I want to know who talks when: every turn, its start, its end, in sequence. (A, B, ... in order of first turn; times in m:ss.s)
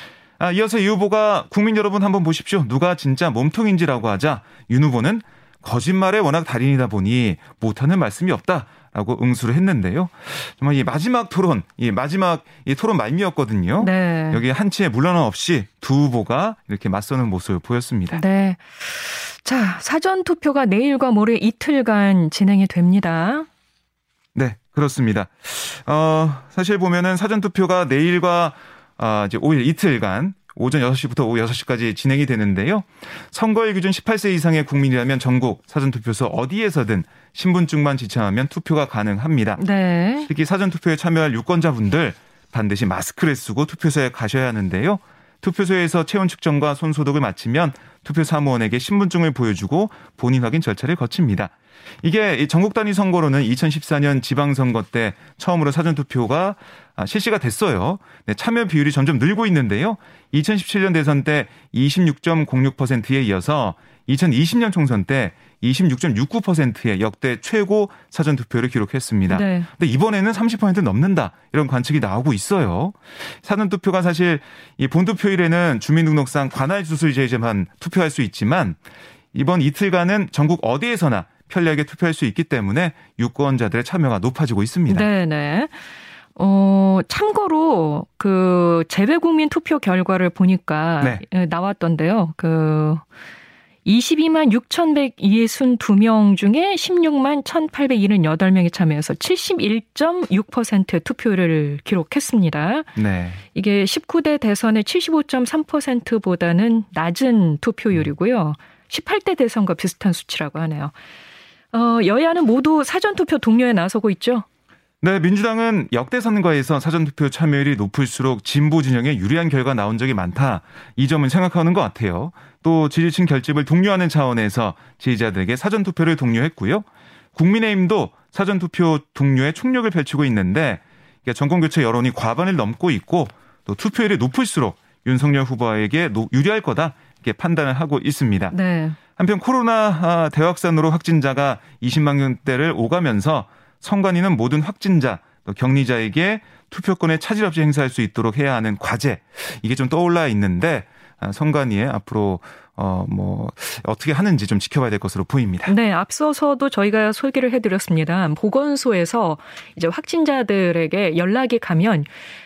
0:00.4-0:18.2 A
0:13.8-0:14.4 B
0:18.1-0:23.5 B
0:24.3-0:39.6 A
0:39.6-0:40.3 B
0:40.3-0:51.5 A
0:52.0-1:18.8 A
1:09.3-1:09.7 B
1:19.3-1:25.1 A
1:24.9-1:25.7 B
1:26.4-1:33.0 B
1:33.8-1:42.9 B
1:43.0-1:43.4 A
1:43.5-1:50.9 B
1:51.7-1:54.4 B
1:55.0-2:18.5 A
2:18.5-2:19.0 B
2:19.2-2:35.7 A
2:35.6-2:42.1 B